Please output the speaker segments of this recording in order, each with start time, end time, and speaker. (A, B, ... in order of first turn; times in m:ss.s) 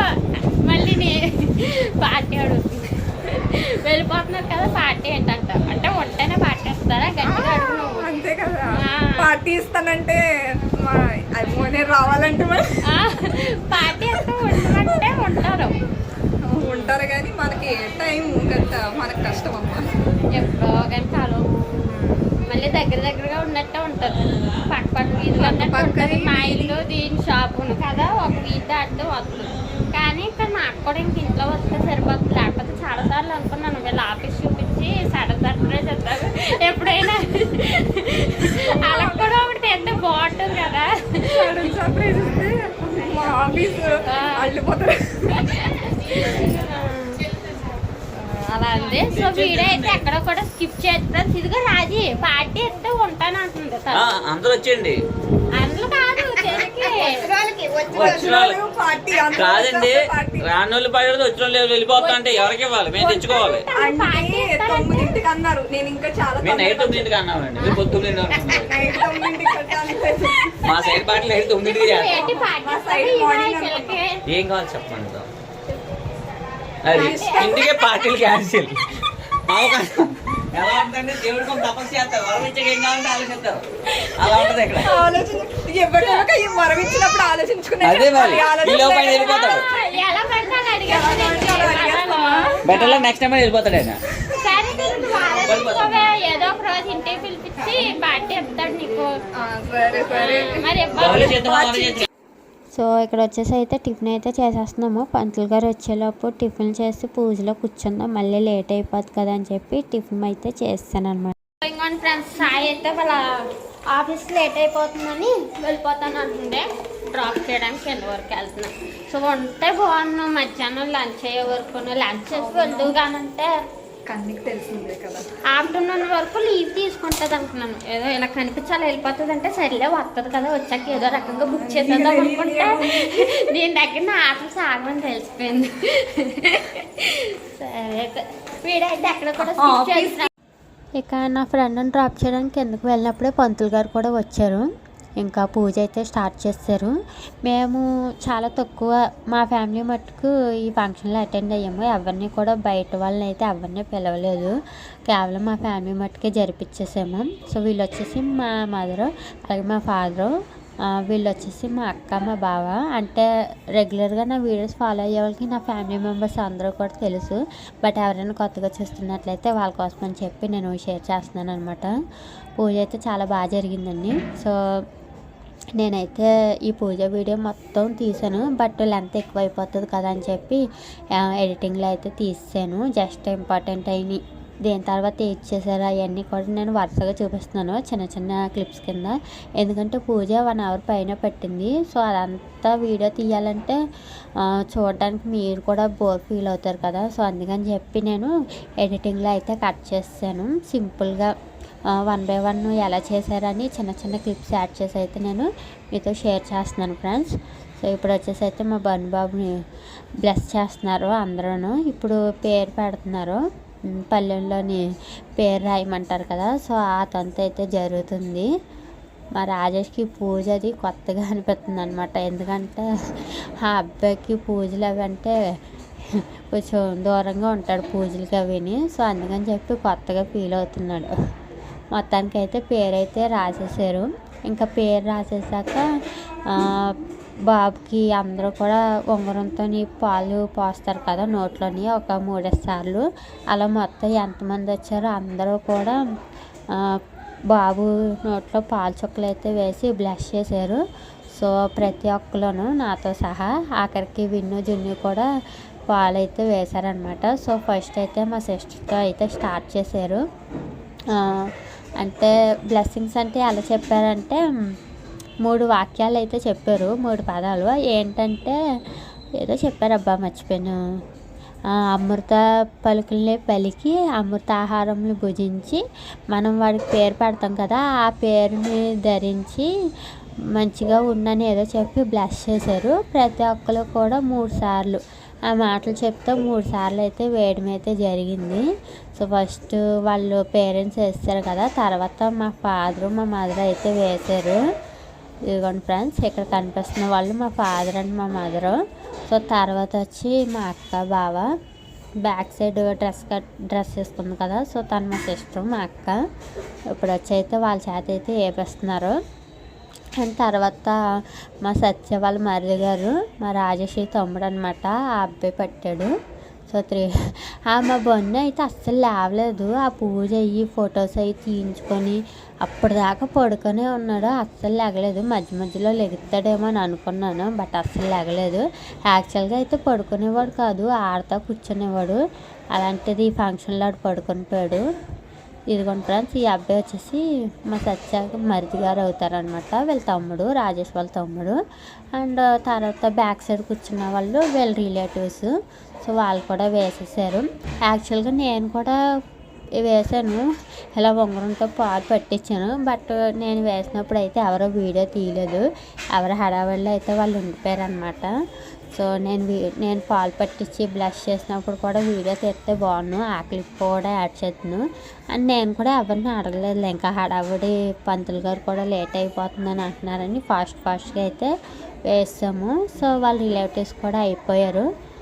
0:00.4-0:08.1 A
0:07.2-0:10.2 B
0:08.8-0:09.3 A
0:10.8-0:12.7 B
0:12.9-0:15.7 A
0:13.9-0:14.8 B
0:16.5-0:20.0 B
0:20.3-0:21.4 A
0:21.9-0:22.2 B
0:22.4-0:41.7 A
0:25.4-0:26.8 B
0:38.6-0:39.3 B
0:41.3-0:45.6 B
0:44.0-0:44.6 A
0:45.3-0:47.2 A
0:48.2-0:54.1 A
0:49.0-0:50.1 C
0:53.9-0:55.0 C
0:55.6-0:57.3 A
0:57.0-1:00.5 B
0:57.9-0:58.6 C
0:59.3-1:03.6 C
1:02.0-1:05.1 A
1:03.7-1:07.1 B
1:06.4-1:08.8 C
1:07.6-1:07.8 A
1:08.6-1:10.8 B
1:10.6-1:12.1 C
1:11.2-1:14.2 A
1:12.1-1:14.0 B
1:14.3-1:15.3 C
1:16.8-1:23.6 C
1:16.9-1:17.6 B
1:16.9-1:17.7 A
1:24.2-1:25.0 C
1:24.7-1:29.6 B
1:27.8-1:29.7 C
1:29.4-1:33.1 A
1:30.8-1:32.6 B
1:32.6-1:34.0 C
1:34.4-1:39.1 A
1:35.4-1:36.0 C
1:39.4-1:42.0 B
1:40.1-1:41.3 A
1:41.0-1:42.1 C
1:42.7-1:51.3 D
1:51.6-1:53.2 A
1:53.9-2:03.5 A
2:02.3-2:02.9 B
2:04.1-2:05.3 B
2:05.5-2:20.3 A
2:11.1-2:13.3 B
2:19.4-2:20.3 B
2:21.0-2:34.6 D
2:35.1-2:40.3 D
2:40.9-2:51.9 D
2:52.6-2:54.6 D
2:55.8-3:00.6 D
3:01.1-3:13.8 D
3:14.4-3:21.3 D
3:22.0-3:29.6 D
3:30.2-3:33.4 D
3:34.0-3:38.5 D
3:39.4-3:45.4 D
3:46.1-3:51.1 D
3:51.9-3:55.8 D
3:56.5-3:57.0 D
3:57.5-4:06.0 D
4:07.5-4:10.8 D
4:11.3-4:15.3 D
4:15.9-4:20.2 D
4:21.1-4:24.4 D
4:25.4-4:28.6 D
4:29.4-4:30.8 D
4:31.8-4:39.7 D
4:40.6-4:54.6 D
4:55.5-4:58.8 D
4:59.3-5:01.5 D
5:02.2-5:06.2 D
5:06.9-5:09.2 D
5:10.2-5:11.0 D
5:11.6-5:16.1 D
5:16.7-5:32.2 D
5:32.7-5:34.8 D
5:35.7-5:41.6 D
5:42.1-5:45.5 D
5:46.0-5:49.0 D
5:49.8-5:58.3 D
5:58.9-6:11.5 D
6:12.1-6:14.9 D